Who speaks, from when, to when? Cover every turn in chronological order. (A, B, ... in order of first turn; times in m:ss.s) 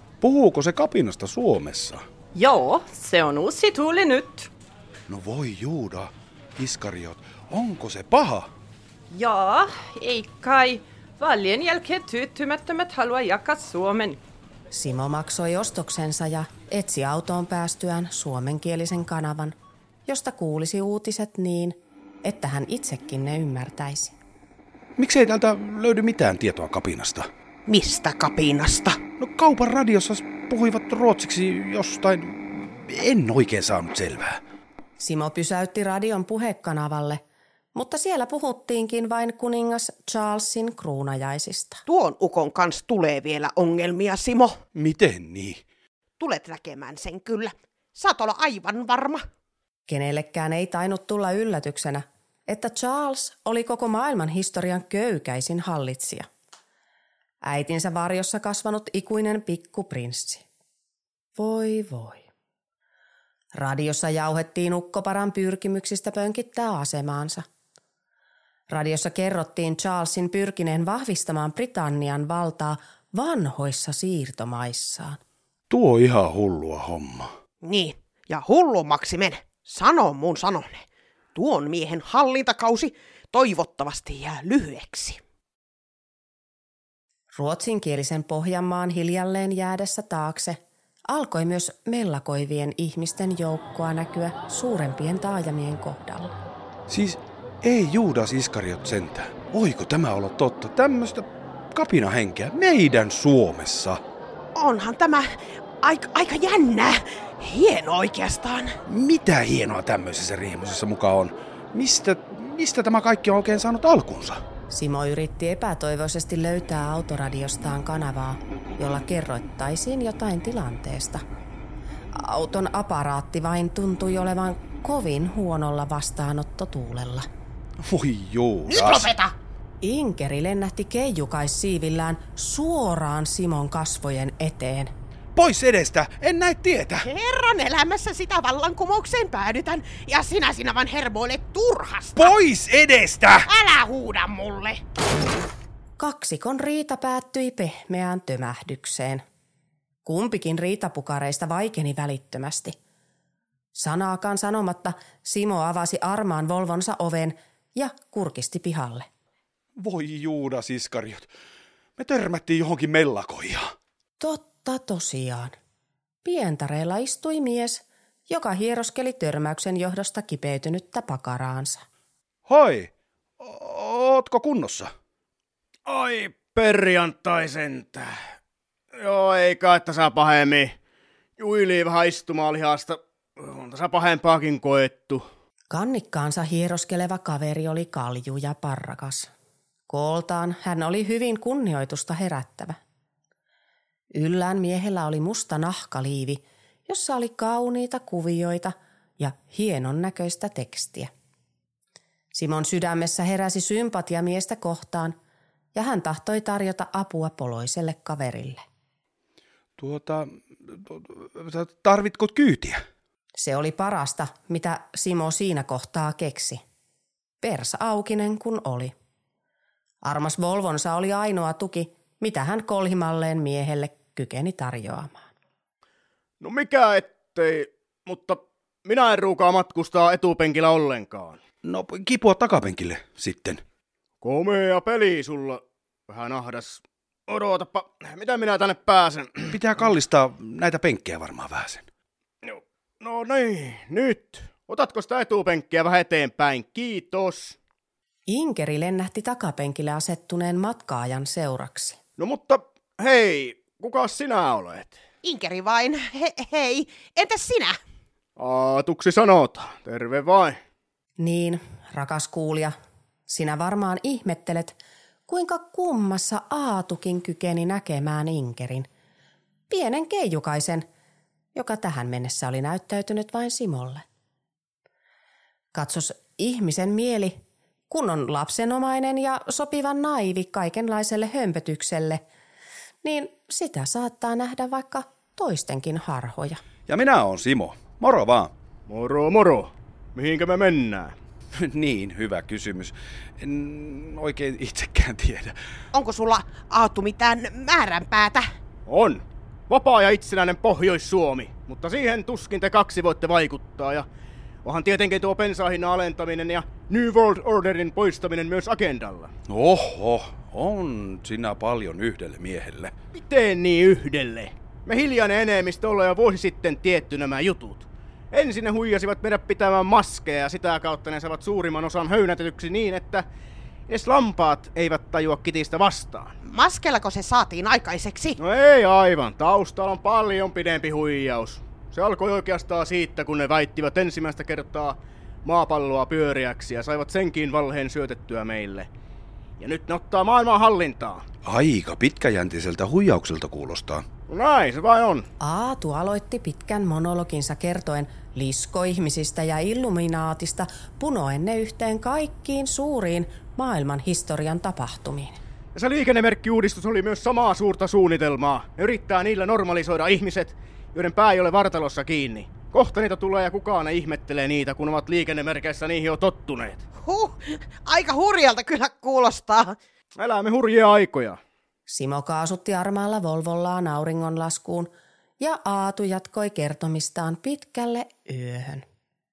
0:00.2-0:02.0 A
0:02.3-0:04.5 B
0:05.1-0:08.5 A
0:09.1-0:14.2 B
0:14.7-0:19.5 C
0:20.1-0:24.2 C
0:25.0-0:27.3 A
0:27.7-0:29.0 D
0:29.2-0:34.4 A
0:35.0-0:37.2 C
0:37.7-0:41.8 C
0:41.9-0:44.6 D
0:44.8-0:45.6 A
0:46.2-0:49.2 D
0:49.9-0:56.3 C
0:57.4-1:00.4 C
1:01.4-1:02.3 C
1:03.6-1:07.4 C
1:08.7-1:15.2 C
1:15.7-1:17.3 A
1:17.6-1:25.2 D
1:27.3-1:30.6 C
1:31.1-1:36.3 C
1:36.9-1:44.0 A
1:44.6-1:45.3 D
1:45.8-1:48.8 D
1:48.9-1:54.4 A
1:54.7-2:01.2 C
2:02.1-2:07.3 C
2:07.8-2:09.1 A
2:08.7-2:09.3 D
2:09.8-2:14.9 C
2:15.4-2:17.1 A
2:17.0-2:22.4 D
2:22.2-2:23.5 A
2:23.5-2:24.8 D
2:26.0-2:29.2 C
2:30.0-2:32.8 C
2:33.8-2:39.1 C
2:39.8-2:41.3 A
2:42.0-2:43.7 A
2:44.2-2:45.6 C
2:46.2-2:51.8 C
2:52.5-2:54.9 A
2:55.9-2:58.1 E
2:59.0-3:00.7 E
3:01.4-3:05.2 E
3:05.7-3:09.3 C
3:09.9-3:12.8 C
3:14.1-3:21.1 C
3:22.3-3:25.2 C
3:25.8-3:28.6 C
3:29.8-3:32.8 A
3:33.4-3:36.6 C
3:37.4-3:38.9 C
3:40.0-3:45.3 C
3:46.4-3:51.4 E
3:51.6-3:53.6 A
3:54.2-3:59.6 E
3:59.5-4:01.8 A
4:02.4-4:07.6 E
4:08.3-4:12.0 C
4:12.2-4:15.0 E
4:15.2-4:17.8 D
4:18.4-4:20.6 E
4:21.2-4:22.7 C
4:23.3-4:28.9 C
4:29.7-4:30.9 C
4:31.5-4:34.0 C
4:35.7-4:37.4 C
4:37.9-4:42.2 C
4:43.0-4:46.6 C
4:46.9-4:48.5 A
4:48.9-4:51.1 E
4:51.6-4:55.6 A
4:55.9-4:58.5 D
4:58.9-5:04.1 E
5:04.6-5:09.3 E
5:09.5-5:12.9 A
5:13.2-5:23.2 E
5:23.9-5:26.3 E
5:26.4-5:28.4 D
5:28.4-5:38.9 E
5:39.6-5:41.2 E
5:41.4-5:44.0 A
5:44.3-5:45.2 E
5:45.4-5:55.4 C
5:55.7-6:06.8 E
6:07.0-6:09.8 D
6:10.2-6:11.4 E
6:11.9-6:18.8 C